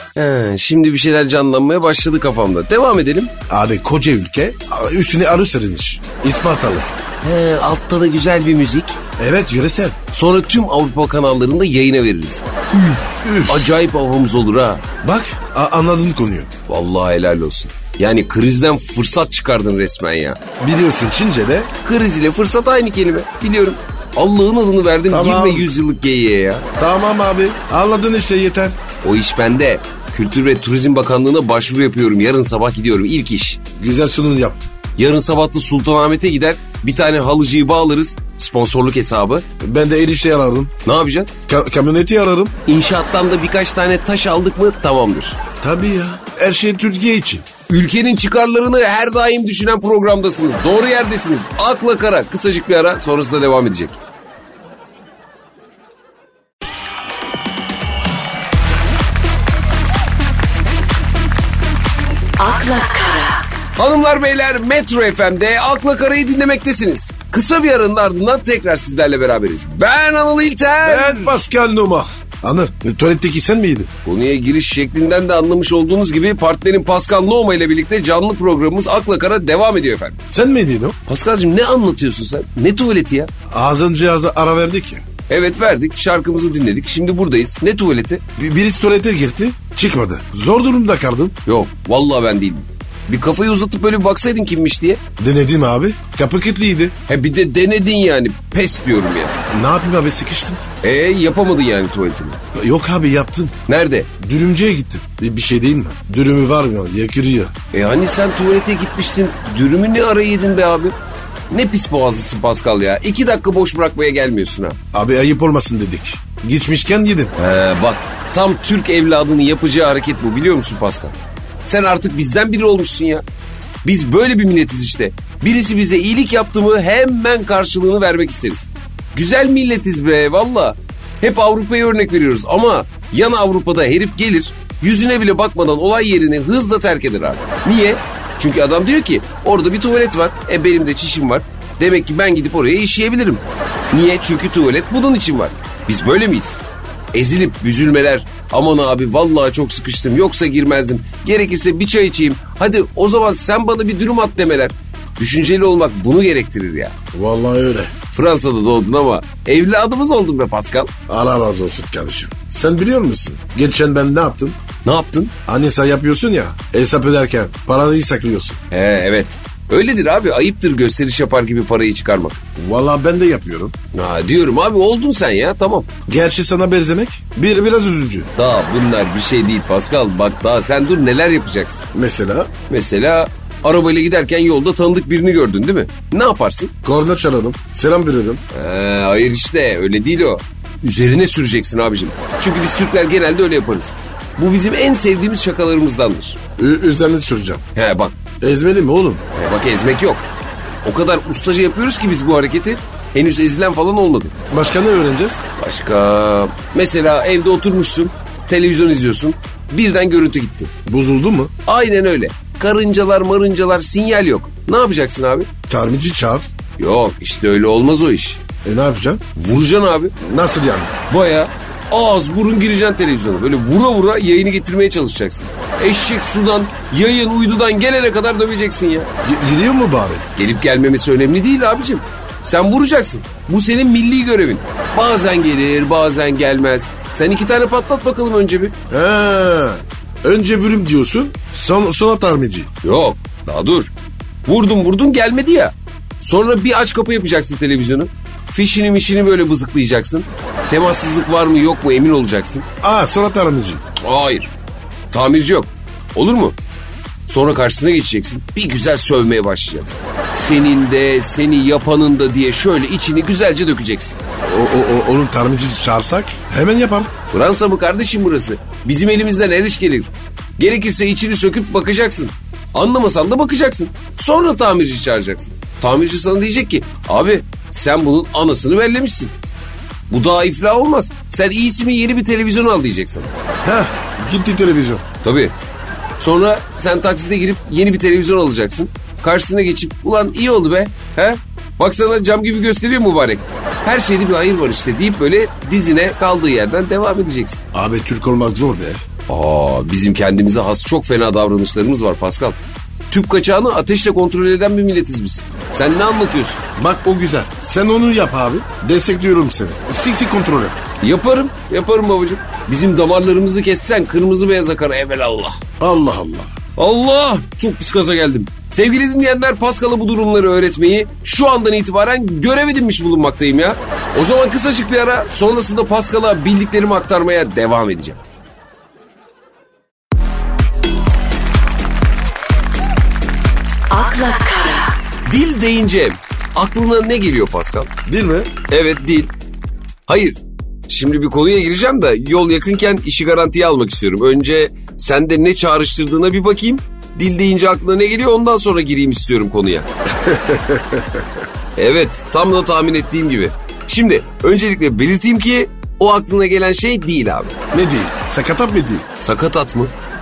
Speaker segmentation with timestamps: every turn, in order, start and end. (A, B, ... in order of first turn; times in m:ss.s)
0:00.2-0:03.3 A
0:03.5-0:07.0 B
0:07.2-0:09.0 A
0:09.2-0:10.0 B
0:10.1-0:14.8 A
0:13.2-0:13.7 B
0:15.0-0:16.5 B
0:16.7-0:20.4 A
0:20.6-0:21.7 B
0:21.8-0:26.6 A
0:25.1-0:25.7 B
0:26.8-0:28.8 B
0:29.0-0:33.6 A
0:33.8-0:34.6 B
0:35.0-0:39.4 A
0:39.6-0:40.7 B
0:40.8-0:41.3 A
0:41.5-0:42.6 B
0:42.7-0:45.4 A
0:45.6-0:47.5 B
0:47.7-0:54.0 A
1:02.4-1:03.5 C
1:03.8-1:11.4 A
1:10.8-1:13.9 B
1:14.0-1:20.2 A
1:20.3-1:21.0 B
1:21.1-1:23.3 A
1:23.5-1:25.0 B
1:25.3-1:28.2 A
1:28.4-1:31.4 B
1:31.5-1:35.0 A
1:35.2-1:37.0 B
1:37.1-1:39.4 A
1:39.5-1:40.6 B
1:40.8-1:42.4 A
1:42.5-1:43.6 B
1:43.7-1:44.1 A
1:44.2-1:47.5 B
1:47.7-1:51.0 A
1:51.5-1:54.8 A
1:54.9-1:57.3 B
1:57.4-2:03.2 A
2:03.8-2:26.6 A
2:27.1-2:37.0 A
2:37.1-2:37.9 B
2:38.1-2:40.9 A
2:41.1-2:44.6 B
2:44.8-2:45.3 A
2:45.5-2:48.6 B
2:48.7-2:52.4 A
2:52.6-2:53.8 B
2:53.9-2:55.9 A
2:56.1-2:58.3 B
2:58.4-3:01.8 A
3:01.9-3:02.5 B
3:02.7-3:06.7 A
3:06.8-3:08.4 B
3:08.5-3:16.4 A
3:16.6-3:17.6 B
3:17.8-3:18.2 A
3:18.4-3:19.2 B
3:19.4-3:20.2 A
3:20.8-3:24.4 A
3:24.5-3:25.4 B
3:25.6-3:30.7 A
3:30.9-3:31.5 B
3:31.7-3:35.5 A
3:35.7-3:36.5 B
3:36.8-3:38.4 A
3:38.6-3:39.2 B
3:39.4-3:40.2 A
3:40.2-3:40.9 B
3:41.1-3:49.1 A
3:49.2-3:50.2 B
3:50.4-3:58.8 A
3:58.9-4:02.7 B
4:02.8-4:03.9 A
4:04.5-4:12.6 A
4:12.8-4:13.8 B
4:14.0-4:14.5 A
4:15.1-4:16.6 A
4:17.3-4:24.2 A
4:24.4-4:27.1 B
4:27.3-4:39.3 A
4:40.1-4:43.3 A
4:43.6-4:45.0 B
4:45.2-4:45.6 A
4:46.2-4:57.6 A
4:57.7-4:59.0 B
4:59.3-5:02.6 A
5:03.1-5:06.6 A
5:06.8-5:10.8 B
5:11.0-5:15.6 A
5:15.8-5:16.5 B
5:16.8-5:28.2 A
5:33.9-5:35.0 C
5:35.2-5:37.9 A
5:38.0-5:38.5 B
5:38.7-5:39.3 A
5:40.1-5:49.9 A
5:50.2-5:51.2 B
5:51.8-5:57.6 A
5:57.7-5:59.0 B
5:59.2-5:59.9 A